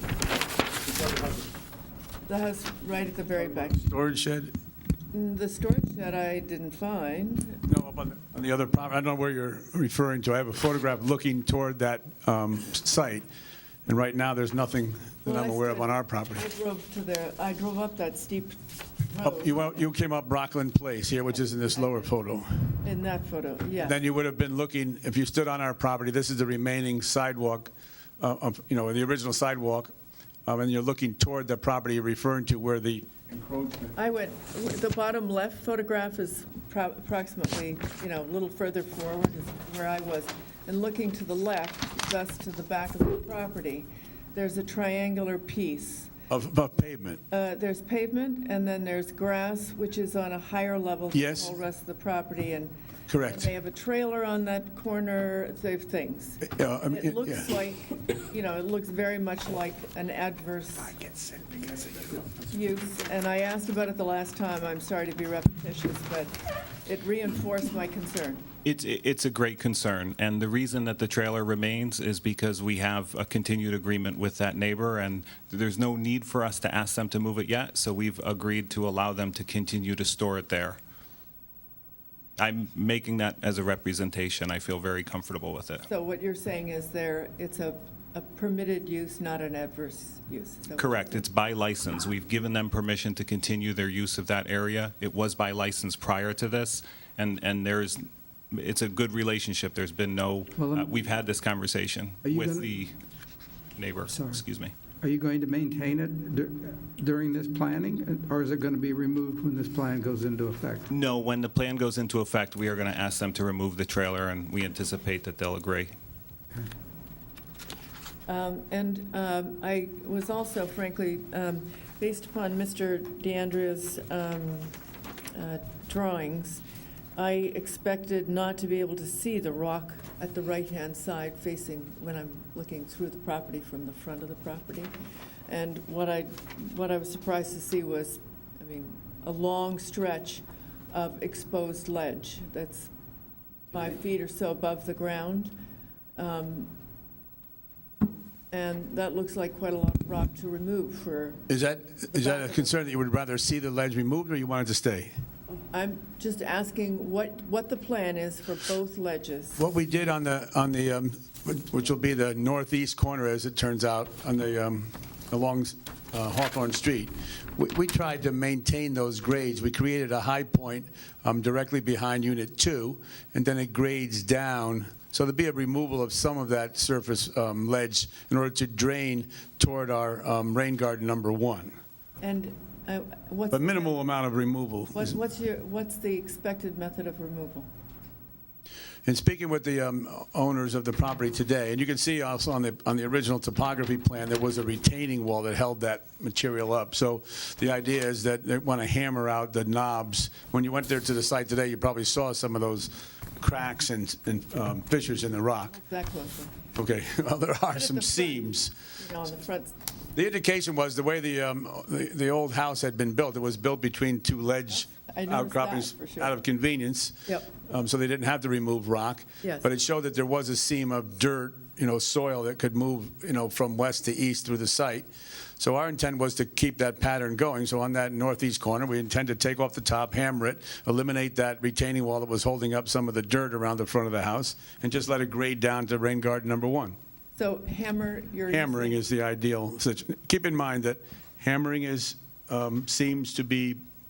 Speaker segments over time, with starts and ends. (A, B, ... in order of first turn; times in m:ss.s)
0:01.0-0:01.3 A
0:02.3-0:03.8 B
0:03.6-0:04.5 A
0:05.1-0:07.6 B
0:07.7-0:13.3 A
0:13.9-0:16.4 A
0:15.3-0:18.6 B
0:19.1-0:19.6 B
0:19.2-0:22.5 A
0:21.5-0:21.9 B
0:22.8-0:24.0 B
0:23.8-0:29.9 A
0:30.5-0:34.0 A
0:34.0-0:46.1 B
0:46.3-0:47.2 A
0:47.3-1:01.1 B
0:51.1-0:51.6 A
0:53.1-0:53.5 A
0:56.4-0:57.5 A
1:01.2-1:01.8 A
1:02.4-1:08.4 B
1:08.6-1:20.8 C
1:22.4-1:25.9 C
1:25.9-1:31.2 B
1:30.8-1:42.9 C
1:40.6-1:41.0 D
1:42.2-1:42.7 D
1:43.8-1:44.7 C
1:44.1-1:44.4 D
1:45.0-1:50.9 D
1:50.9-1:55.9 C
1:58.3-2:04.8 B
2:05.3-2:06.6 B
2:07.2-2:14.9 B
2:15.5-2:22.9 B
2:23.7-2:25.6 B
2:26.2-2:26.7 B
2:28.5-2:31.5 B
2:31.5-2:35.1 A
2:32.1-2:32.8 B
2:35.7-2:39.6 B
2:39.6-3:01.7 A
3:02.2-3:04.0 B
3:03.5-3:05.2 A
3:04.9-3:07.7 B
3:09.0-3:25.8 A
3:25.7-3:26.6 B
3:26.8-3:28.7 A
3:27.7-3:29.8 B
3:30.2-3:45.1 A
3:34.9-3:36.4 B
3:39.4-3:39.7 B
3:45.6-3:57.0 A
3:57.4-3:59.0 B
3:58.5-4:03.8 A